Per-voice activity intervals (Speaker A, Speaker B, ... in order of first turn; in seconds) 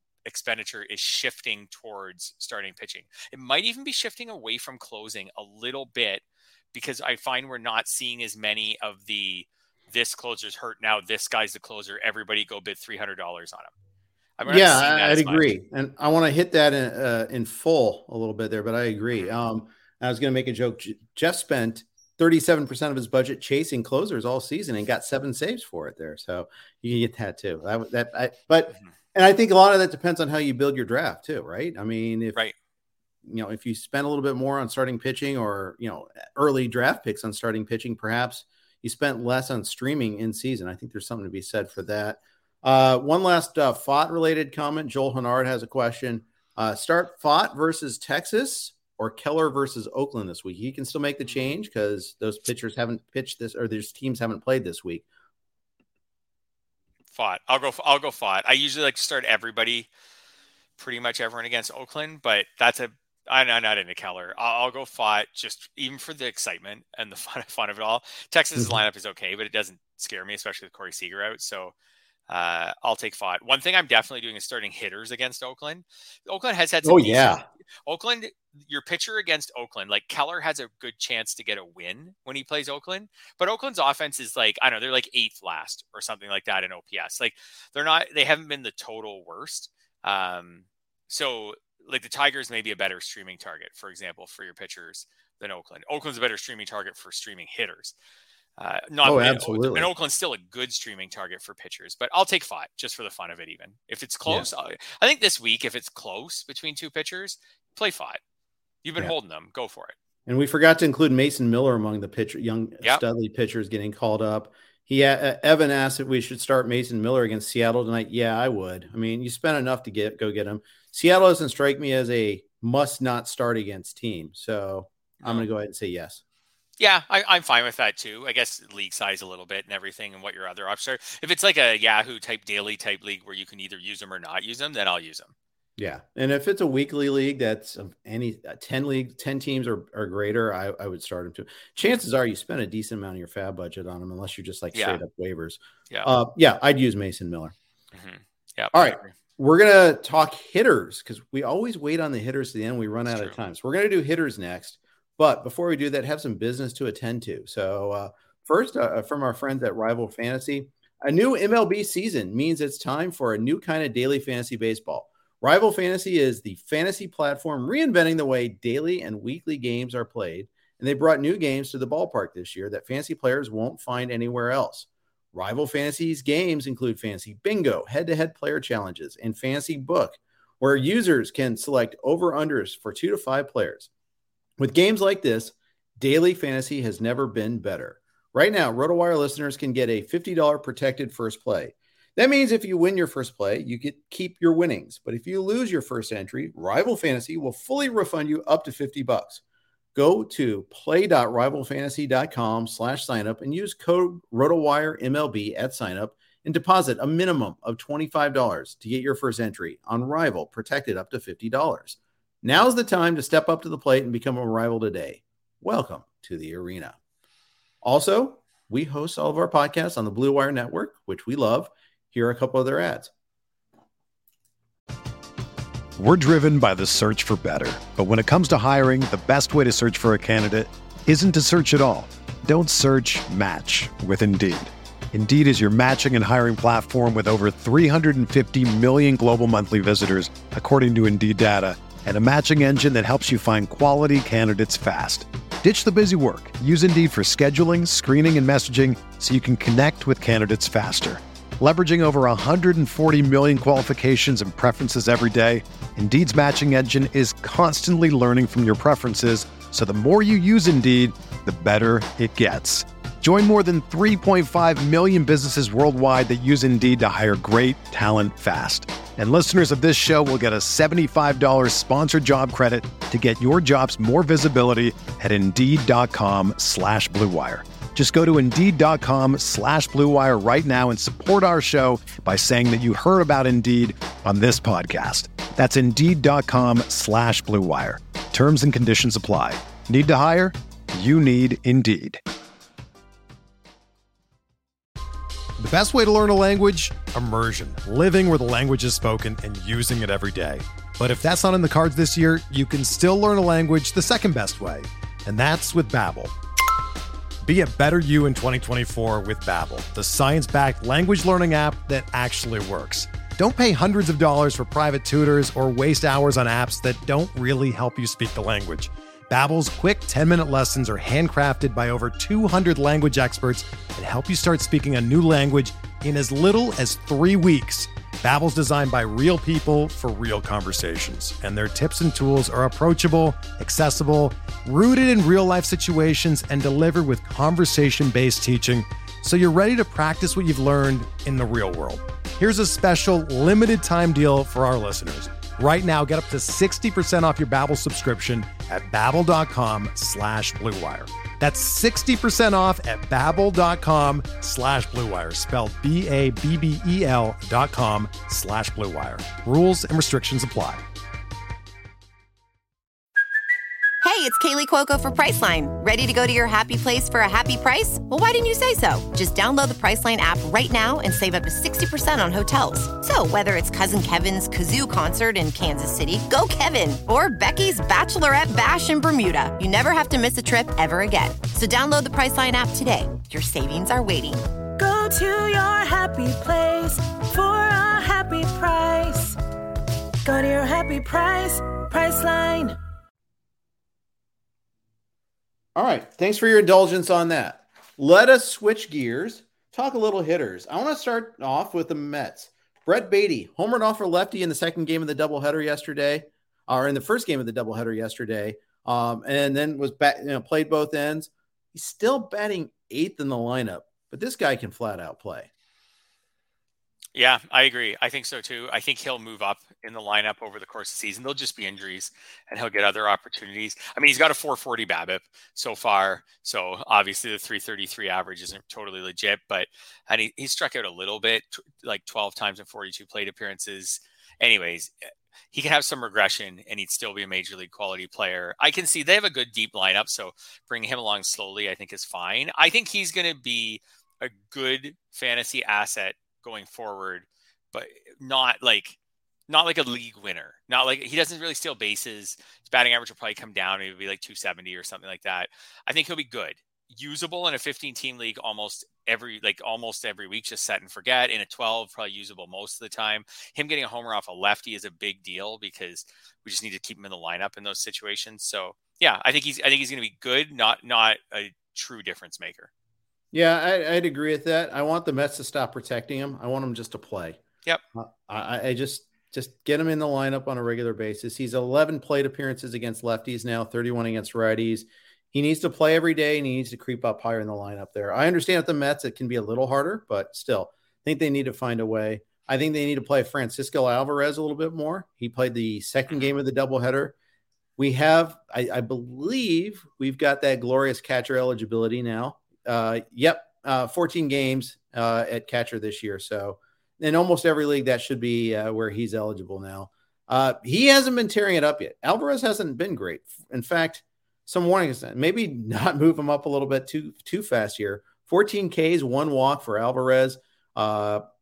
Speaker A: 0.3-13.7, 14.4-15.6, 57.1-59.9, 60.8-71.7, 72.3-97.9, 98.6-108.2, 108.8-109.9, 125.2-125.5, 126.8-135.3, 144.7-145.0, 147.9-149.1, 153.1-153.4, 417.1-449.0, 449.5-472.7
Speaker B: 14.4-32.4, 33.2-55.1, 76.8-77.4, 99.0-99.9, 110.3-126.2, 135.8-147.5, 148.7-183.9, 184.6-199.4, 199.9-217.0, 217.8-223.1, 395.8-415.5, 473.3-477.4, 477.9-497.1, 497.8-521.2
Speaker C: 226.0-292.2, 295.6-306.3, 307.4-360.8
Speaker D: 364.0-384.5
Speaker E: 384.8-389.4, 390.2-392.8